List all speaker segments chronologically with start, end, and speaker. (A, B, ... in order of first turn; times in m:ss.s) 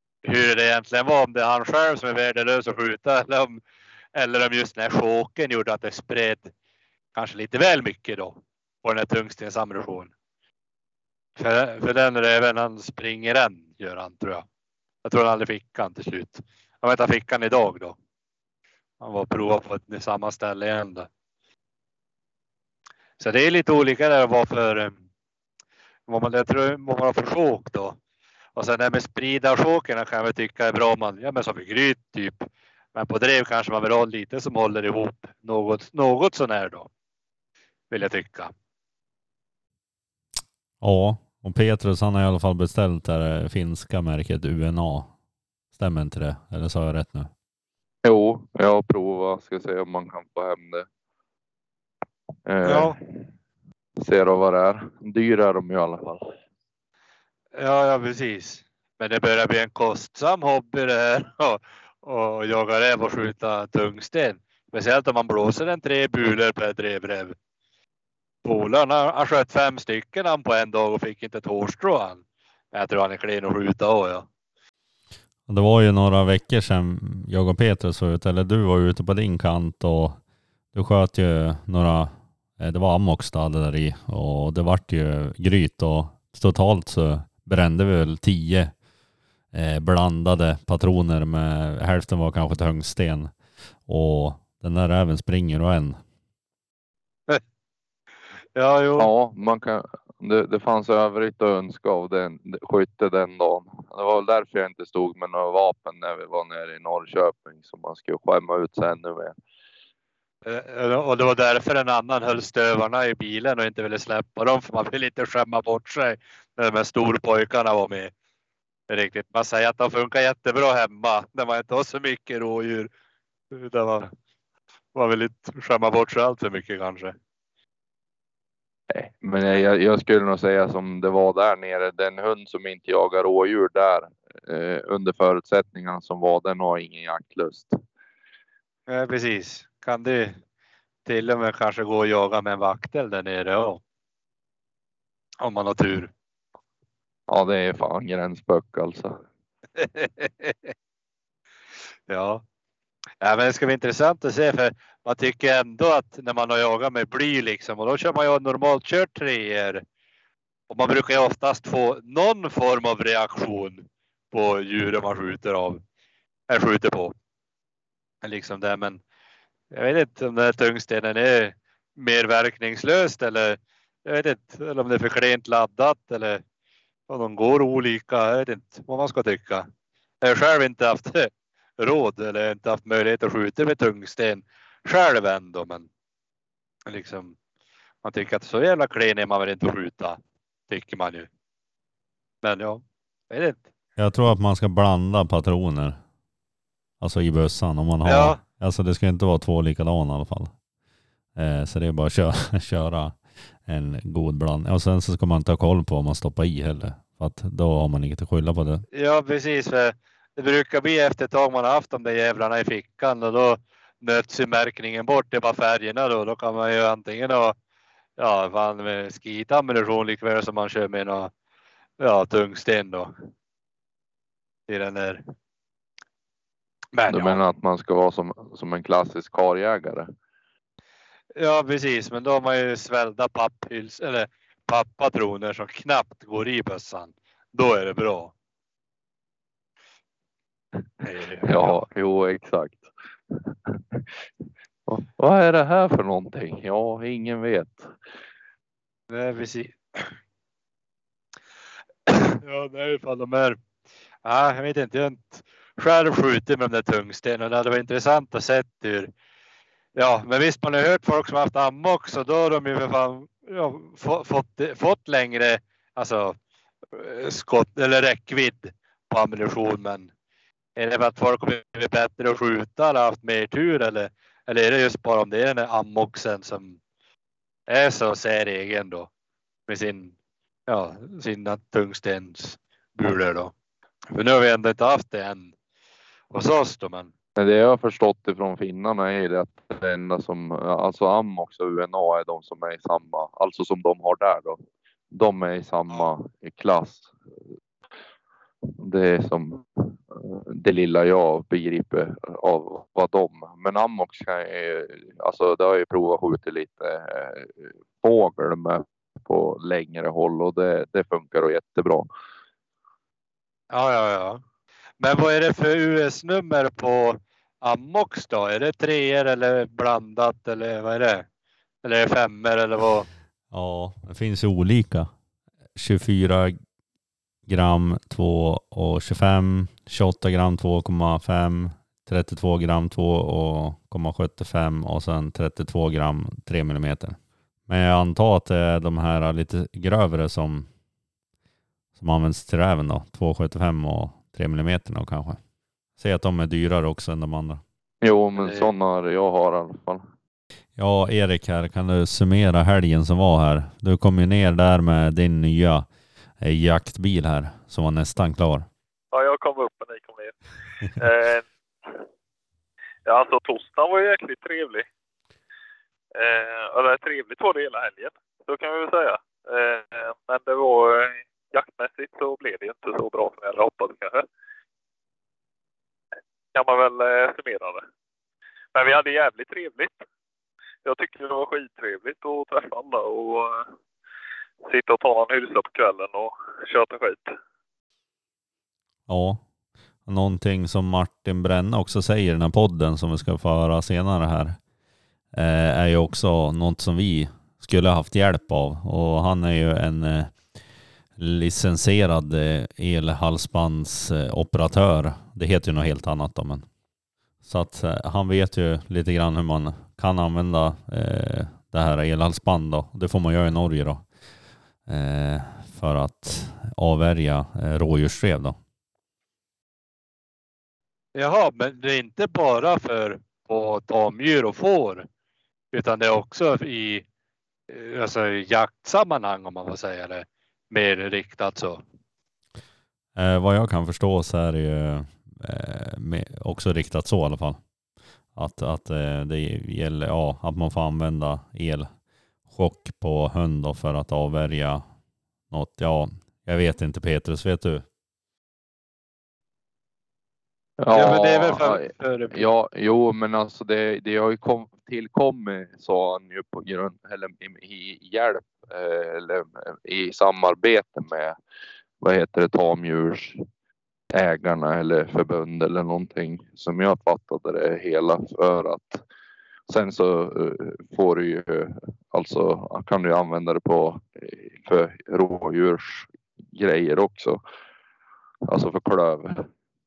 0:00.2-0:03.6 A
0:04.1-0:06.5 A
0:07.1-0:10.1 A
0:11.4-0:14.4 A
0:15.0-0:18.0 A
0:19.0-0:21.1 A
0:23.2-0:25.0 A
0:26.1-0:28.0 A
0:28.6-0:36.9 A
0:37.9-0:38.5 A
0:40.8-0:45.1 B
0:45.7-0:47.3 B
0:48.0-0:50.8 C
0:52.4-0:53.2 C
0:52.6-0:52.9 A
0:54.0-0:56.2 C
0:57.6-1:07.3 A
1:08.4-1:14.2 A
1:15.5-1:20.2 B
1:20.7-1:28.7 B
1:29.5-1:33.3 B
1:33.8-1:36.0 B
1:38.6-1:39.1 A
1:39.0-1:49.4 C
1:50.4-1:58.1 A
1:58.9-2:02.9 A
2:03.5-2:04.1 A
2:04.9-2:07.1 A
2:08.9-2:17.8 C
2:18.9-2:20.4 A
2:21.0-2:23.8 A
2:25.4-2:26.1 A
2:27.3-2:29.2 C
2:29.8-2:30.7 A
2:32.1-2:32.4 A
2:33.2-2:39.8 A
2:40.7-2:45.8 A
2:46.5-2:47.1 A
2:48.2-2:49.0 A
2:49.7-2:56.4 A
2:57.1-2:59.6 A
3:00.2-3:05.9 A
3:06.9-3:07.3 A
3:08.0-3:10.2 A
3:10.7-3:11.3 A
3:12.4-3:13.6 A
3:14.0-3:16.0 B
3:17.0-3:20.5 B
3:18.0-3:18.4 A
3:21.3-3:28.8 B
3:28.9-3:37.5 A
3:38.2-3:41.3 A
3:42.0-3:43.1 A
3:44.7-3:45.2 A
3:46.9-3:47.4 A
3:47.1-3:50.1 C
3:51.4-3:58.3 A
4:01.0-4:01.8 A
4:01.4-4:04.0 C
4:04.9-4:07.9 C
4:09.1-4:10.1 A
4:12.1-4:13.6 A
4:14.2-4:19.1 A
4:20.0-4:26.3 A
4:27.0-4:30.1 A
4:30.8-4:36.8 A
4:37.7-4:39.1 A
4:39.7-4:40.1 A
4:40.7-4:43.5 A
4:44.1-4:45.5 A
4:46.3-4:47.1 A
4:47.4-4:54.6 C
4:55.1-4:57.1 C
4:58.8-5:12.1 C
5:13.7-5:14.4 A
5:15.0-5:21.2 A
5:21.8-5:23.1 A
5:23.5-5:25.1 B
5:25.7-5:26.6 B
5:27.4-5:40.7 B
5:42.0-5:45.4 B
5:46.0-5:47.6 B
5:48.0-5:50.0 C
5:48.4-5:48.7 A
5:50.8-5:58.7 B
5:59.1-6:01.5 D
6:03.0-6:04.9 D
6:06.1-6:14.2 D
6:16.5-6:17.8 D
6:18.7-6:20.0 D
6:20.8-6:23.6 D
6:24.7-6:27.3 D
6:29.1-6:29.4 B
6:30.0-6:34.6 B
6:35.3-6:40.5 B
6:41.2-6:46.6 B
6:47.4-6:54.1 B
6:54.8-6:58.6 B
7:01.1-7:05.0 A
7:05.7-7:07.0 A
7:07.7-7:11.8 A
7:13.1-7:17.7 B
7:18.3-7:21.9 B
7:22.5-7:24.9 B
7:25.5-7:27.8 B
7:30.8-7:41.4 C
7:30.9-7:32.5 A
7:42.0-7:43.4 C
7:44.1-7:49.0 C
7:49.7-7:57.4 C
7:58.5-7:59.5 C